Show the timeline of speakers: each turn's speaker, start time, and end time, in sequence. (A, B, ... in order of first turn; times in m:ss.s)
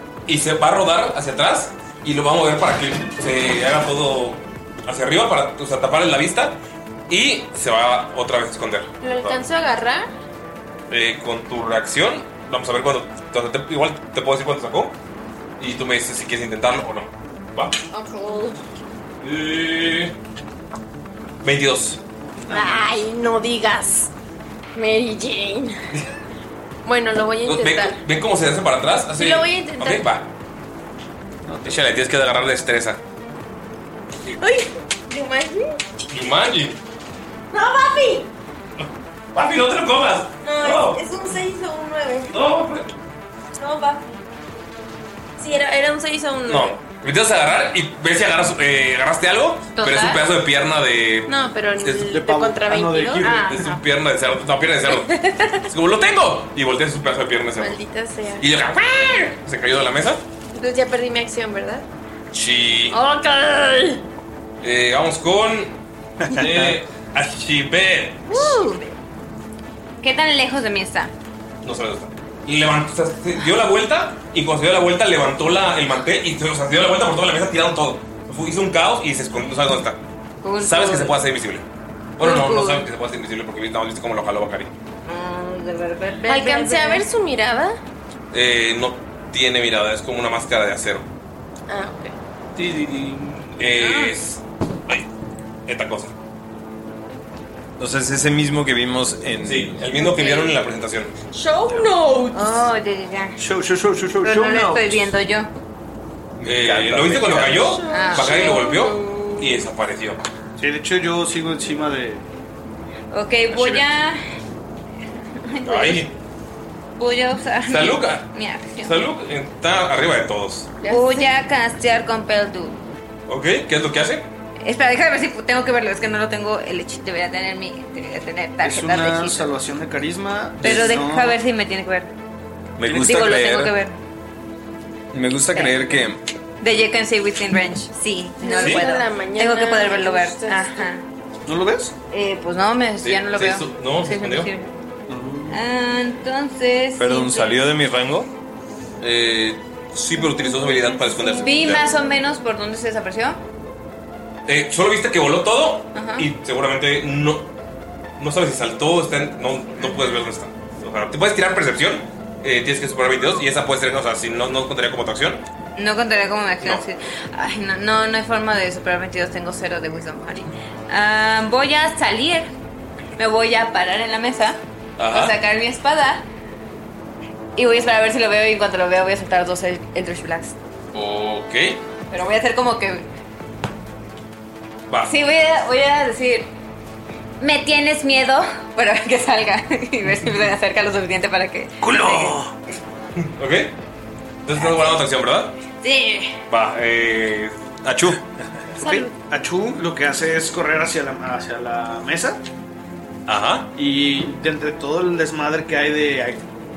0:00.3-0:09.4 A
0:09.0-0:10.1 B
0:10.9-0:15.0 A
0:15.6-0:17.8 A
0:17.9-0:18.6 B
0:19.2-0:20.2 A
0:21.4-0:22.0 A
0:22.5-0:22.8 C
0:22.5-0:24.1 B
0:24.8-0:25.8 B
0:26.8-0:28.0 B
0:27.4-0:30.3 A
0:29.2-0:30.1 B
0:31.5-0:31.8 C
0:31.7-0:33.0 A
0:34.4-0:35.8 B
0:36.1-0:36.8 A
0:37.5-0:38.3 B
0:39.4-0:41.0 A
0:40.4-0:42.4 B
0:42.3-0:42.9 A
0:43.6-0:44.0 B
0:45.4-0:46.8 B
0:46.5-0:52.1 A
0:49.8-0:50.3 D
0:51.3-0:53.3 B
0:52.1-0:53.5 C
0:53.2-0:53.8 D
0:53.3-0:57.8 A
0:57.6-0:58.5 B
0:58.4-1:00.2 A
1:00.5-1:01.9 B
1:02.3-1:03.0 A
1:02.9-1:03.9 D
1:04.6-1:05.8 A
1:06.2-1:06.8 E
1:06.3-1:08.5 A
1:08.3-1:08.9 D
1:10.0-1:11.1 D
1:11.6-1:20.0 A
1:20.4-1:21.2 D
1:20.6-1:21.7 A
1:22.2-1:24.7 A
1:22.2-1:22.9 D
1:25.1-1:27.0 D
1:26.2-1:27.8 B
1:28.3-1:31.1 A
1:31.7-1:32.2 B
1:32.6-1:33.6 C
1:33.6-1:35.1 A
1:33.8-1:34.1 D
1:35.7-1:36.1 A
1:37.8-1:39.8 E
1:39.4-1:41.1 A
1:40.1-1:40.3 B
1:41.3-1:42.6 B
1:42.3-1:43.4 D
1:43.4-1:45.1 C
1:44.2-1:45.5 D
1:46.4-1:47.8 E
1:46.4-1:50.2 A
1:47.5-1:49.6 B
1:47.9-1:48.9 D
1:50.6-1:52.2 C
1:53.1-1:54.2 D
1:55.5-1:56.1 D
1:55.6-1:56.1 A
1:57.0-1:59.0 D
1:57.7-2:00.7 A
2:00.8-2:01.3 B
2:00.8-2:02.8 D
2:03.3-2:04.3 A
2:04.6-2:09.5 D
2:08.6-2:11.4 C
2:10.6-2:12.1 D
2:12.8-2:13.8 E
2:12.9-2:14.0 D
2:15.1-2:16.2 E
2:15.5-2:15.9 D
2:16.6-2:21.1 D
2:18.4-2:20.9 B
2:21.5-2:22.0 C
2:22.1-2:24.7 D
2:23.0-2:24.5 A
2:25.1-2:25.6 C
2:25.5-2:27.6 D
2:27.0-2:28.3 E
2:29.0-2:31.9 A
2:30.7-2:31.0 B
2:31.2-2:33.4 D
2:34.5-2:37.5 A
2:35.9-2:36.3 D
2:38.2-2:45.4 A
2:45.8-2:52.5 D
2:53.2-2:54.6 D
2:55.0-2:55.4 A
2:55.1-2:56.2 D
2:57.6-3:00.6 D
3:00.9-3:01.8 A
3:02.1-3:03.1 D
3:05.0-3:06.5 D
3:07.4-3:12.4 D
3:11.8-3:12.5 C
3:13.2-3:13.8 A
3:14.4-3:15.6 A
3:14.6-3:15.0 D
3:15.8-3:16.3 D
3:16.5-3:18.2 A
3:17.9-3:18.2 E
3:18.8-3:22.4 C
3:23.3-3:23.7 A
3:23.8-3:26.4 C